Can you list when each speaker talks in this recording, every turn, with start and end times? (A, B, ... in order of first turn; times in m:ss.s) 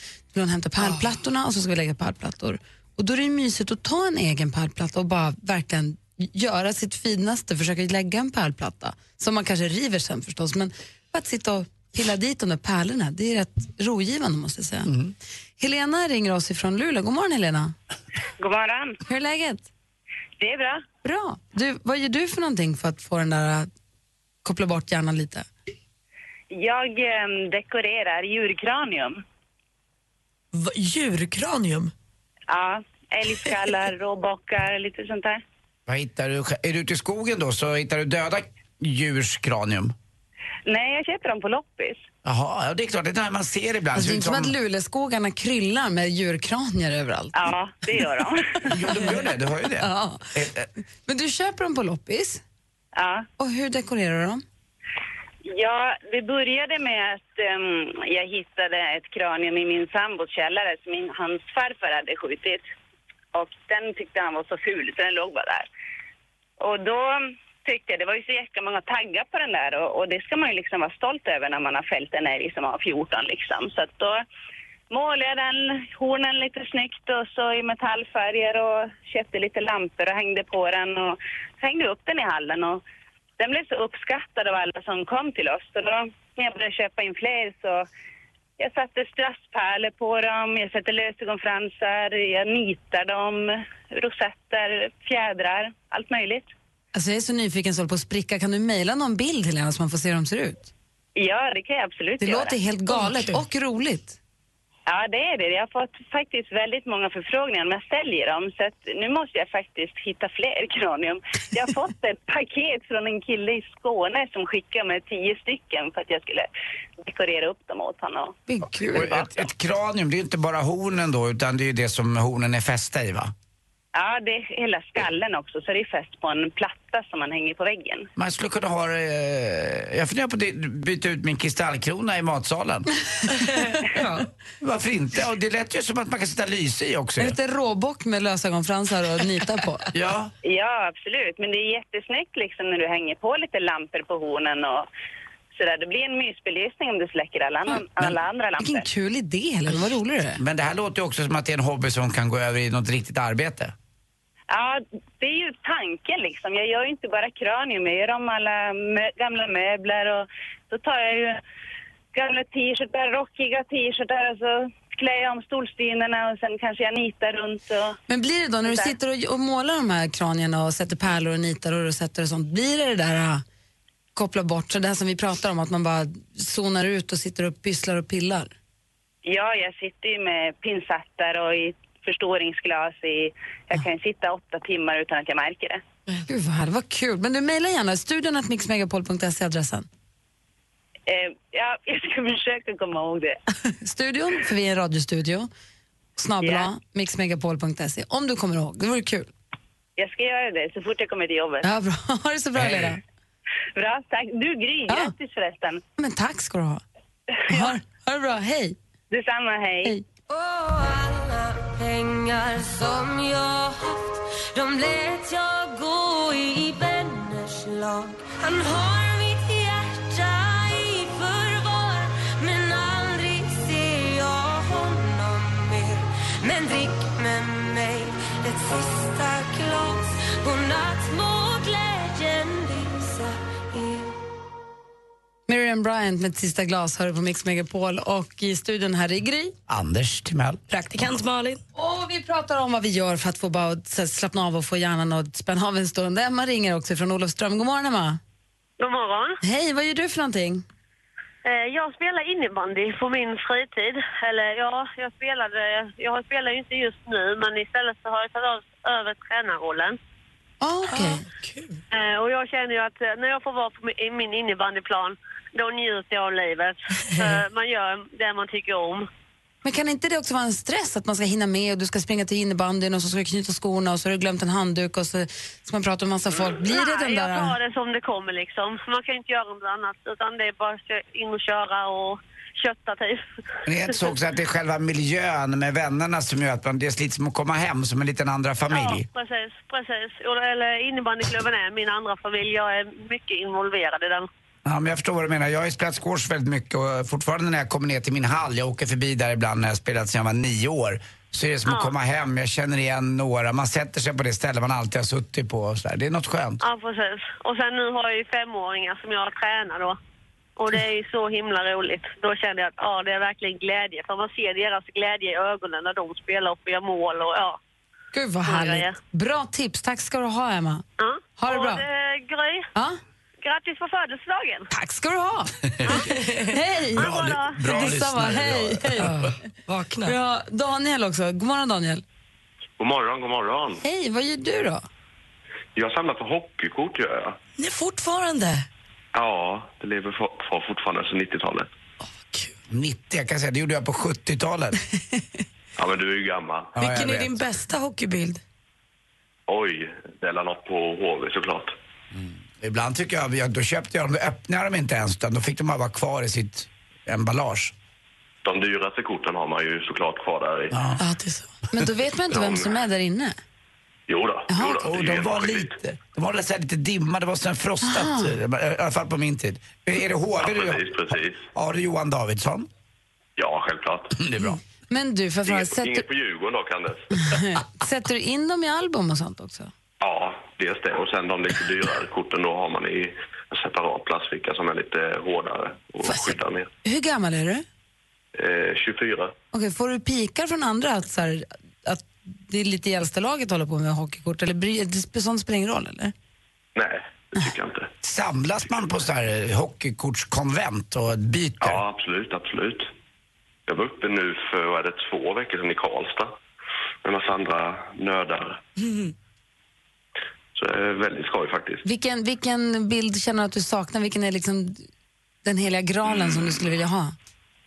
0:00.3-0:14.9 A
0:14.9-0:15.1 B
0:15.6-0:17.7 A
0:18.4-0:19.0 C
0:19.0-0:19.7 A
0:20.4-0:20.8 C
0:21.0-0:23.7 A
0:24.4-0:25.5 A
0:26.5-0:29.2 C
0:30.5-0:31.9 D
0:32.5-0:35.4 C
0:35.9-0:39.9 B
0:40.7-0:42.0 C
0:42.2-0:44.5 B
0:43.9-0:47.4 A
0:47.3-0:48.7 C
0:48.7-0:50.7 B
0:49.8-0:50.3 A
0:51.0-0:52.4 A
0:52.9-0:53.3 C
0:53.4-0:54.4 A
0:55.4-1:02.7 C
1:03.3-1:05.7 C
1:06.6-1:14.2 C
1:14.9-1:22.8 C
1:23.4-1:27.8 C
1:28.6-1:36.5 C
1:36.9-1:40.7 A
1:41.2-1:42.6 C
1:42.2-1:44.2 A
1:43.0-1:43.3 D
1:44.9-1:56.5 C
1:57.0-1:59.3 C
1:58.5-1:59.1 A
1:58.9-2:03.3 B
2:03.9-2:08.1 C
2:08.2-2:12.9 B
2:13.4-2:14.2 A
2:14.6-2:17.4 B
2:17.2-2:19.9 A
2:19.9-2:20.3 B
2:20.4-2:24.9 C
2:25.5-2:28.9 C
2:28.6-2:30.4 A
2:30.4-2:33.7 B
2:34.5-2:41.4 C
2:42.1-2:48.0 C
2:48.1-2:53.4 A
2:48.6-2:48.9 C
2:54.1-2:58.5 A
2:59.2-3:05.8 C
3:06.2-3:09.9 A
3:11.1-3:13.4 C
3:13.8-3:15.5 A
3:16.2-3:19.3 A
3:16.4-3:16.7 C
3:20.0-3:21.6 C
3:21.6-3:23.0 A
3:22.6-3:22.9 B
3:23.8-3:25.8 C
3:26.0-3:26.8 A
3:27.5-3:28.8 A
3:29.1-3:29.9 C
3:30.3-3:54.2 E
3:55.5-3:59.5 A
3:59.7-4:00.6 B
4:00.7-4:01.6 D
4:01.7-4:08.2 A
4:08.8-4:09.4 F
4:09.4-4:10.6 A
4:11.4-4:20.0 F
4:20.6-4:21.2 A
4:20.9-4:21.7 D
4:21.9-4:29.1 F
4:29.6-4:37.6 A
4:36.5-4:43.2 F
4:43.6-4:49.0 B
4:48.7-4:54.3 F
4:54.6-5:06.6 B
5:01.6-5:01.9 F
5:06.6-5:10.0 F
5:10.6-5:17.6 F
5:18.1-5:20.8 A
5:18.4-5:19.0 F
5:21.0-5:22.7 F
5:21.4-5:21.8 A
5:23.4-5:24.7 F
5:24.7-5:29.4 A
5:25.8-5:26.1 B
5:26.9-5:29.3 B
5:27.0-5:27.9 F
5:29.0-5:30.1 D
5:30.0-5:32.0 A
5:32.8-5:33.8 G
5:33.8-5:34.8 A
5:35.8-5:37.4 G
5:37.6-5:38.6 D
5:39.1-5:41.7 G
5:42.7-5:44.8 B
5:45.8-5:46.9 G
5:46.8-5:47.4 B
5:46.8-5:48.4 D
5:49.5-5:51.7 G
5:52.1-5:57.7 B
5:58.4-6:00.8 G
6:00.7-6:01.0 B
6:01.0-6:01.5 D
6:01.7-6:03.4 A
6:02.3-6:02.7 G
6:04.1-6:05.7 G
6:04.5-6:04.8 A
6:04.6-6:12.7 B
6:07.8-6:08.3 A
6:10.4-6:11.5 G
6:13.4-6:14.2 G
6:14.2-6:14.6 B
6:14.9-6:16.0 A
6:15.4-6:17.3 G
6:17.1-6:19.7 A
6:20.0-6:26.7 G
6:26.0-6:27.6 A
6:28.4-6:29.3 G
6:29.5-6:36.1 A
6:36.7-6:37.9 G
6:38.0-6:41.8 B
6:41.6-6:42.9 G
6:43.7-6:46.3 G
6:47.0-6:48.6 G
6:50.5-6:51.8 G
6:51.8-6:54.9 A
6:55.4-6:57.1 A
6:56.0-6:56.6 G